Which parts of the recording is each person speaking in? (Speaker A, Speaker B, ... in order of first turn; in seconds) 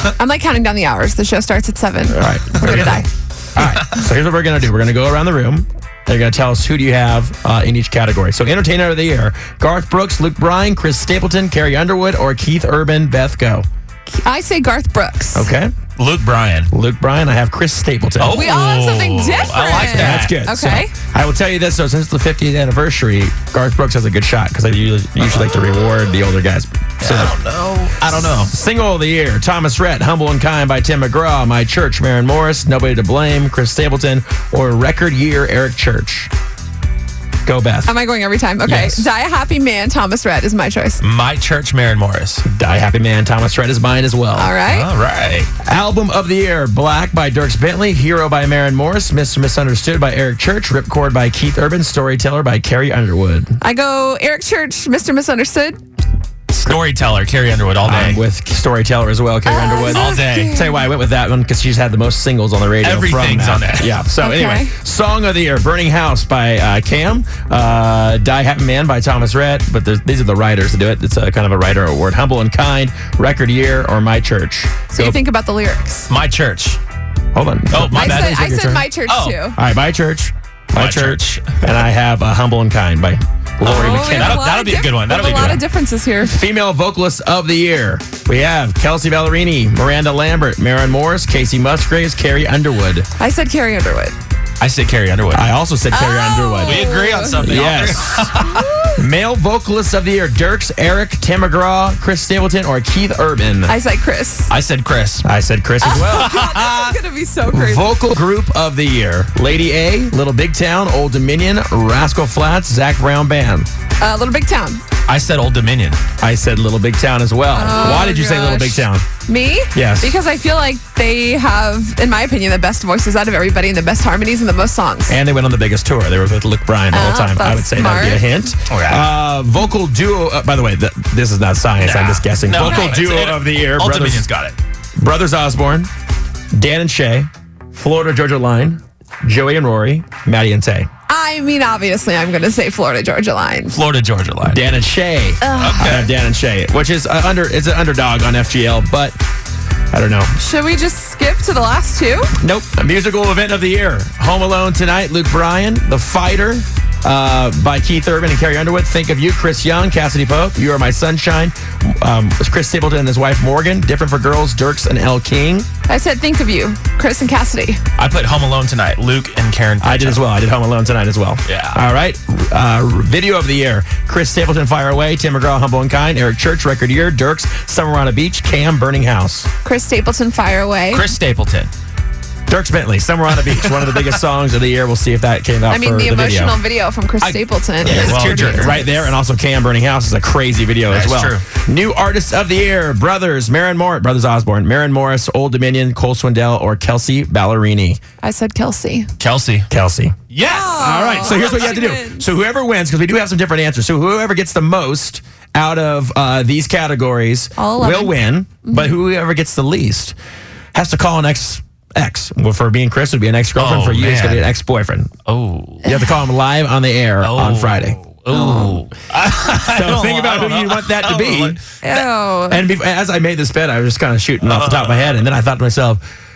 Speaker A: 0.2-3.1, 14.2-15.5, 18.3-20.9, 37.9-41.0, 44.4-44.9, 53.6-55.8, 59.5-60.9, 64.2-64.7, 74.9-76.1, 77.9-79.6, 83.6-86.4, 93.2-94.2, 95.9-97.7, 98.5-98.9, 103.7-104.5, 105.8-107.9, 114.0-114.8, 117.5-125.2, 126.9-128.3, 132.5-132.9, 141.1-143.8, 145.4-145.9, 150.4-152.3, 165.9-167.8, 179.6-181.1, 185.7-189.1, 198.2-199.1, 200.4-202.3, 207.6-208.9, 215.8-216.1, 218.3-218.8, 221.8-222.7
Speaker B: 2.1-13.6, 15.3-15.7, 16.7-18.5, 19.8-27.3, 28.2-36.3, 37.5-37.9, 38.6-39.1, 42.5-44.5, 45.6-53.6, 57.8-75.2, 77.3-78.4, 79.5-84.4, 86.2-93.1, 95.3-98.4, 98.9-103.8, 105.2-106.2, 107.5-113.7, 116.2-119.0, 119.7-120.1, 125.1-134.2, 135.0-135.9, 136.5-140.9, 144.4-149.2, 149.9-150.3, 152.4-165.7, 169.8-179.5, 182.5-186.6, 187.8-198.0, 199.7-200.2, 200.8-210.2, 210.7-215.1, 215.8-218.0, 219.7-221.6, 222.5-226.0
Speaker C: 16.0-16.7, 18.2-20.3, 27.0-28.5, 41.0-42.4, 44.6-45.5, 56.5-58.2, 59.9-60.6, 62.8-63.9, 76.1-76.8, 77.7-79.4, 80.7-81.5, 83.6-85.6, 94.6-95.5, 96.6-98.7, 104.5-105.2, 105.9-107.0, 115.1-116.0, 128.7-129.1, 131.8-134.6, 143.7-144.6, 145.6-146.1, 168.0-170.2, 171.4-171.8, 180.9-181.7, 187.3-188.8, 190.9-191.4, 199.2-199.7, 200.3-201.8, 213.6-214.4, 215.2-215.9, 217.2-222.0, 224.4-225.2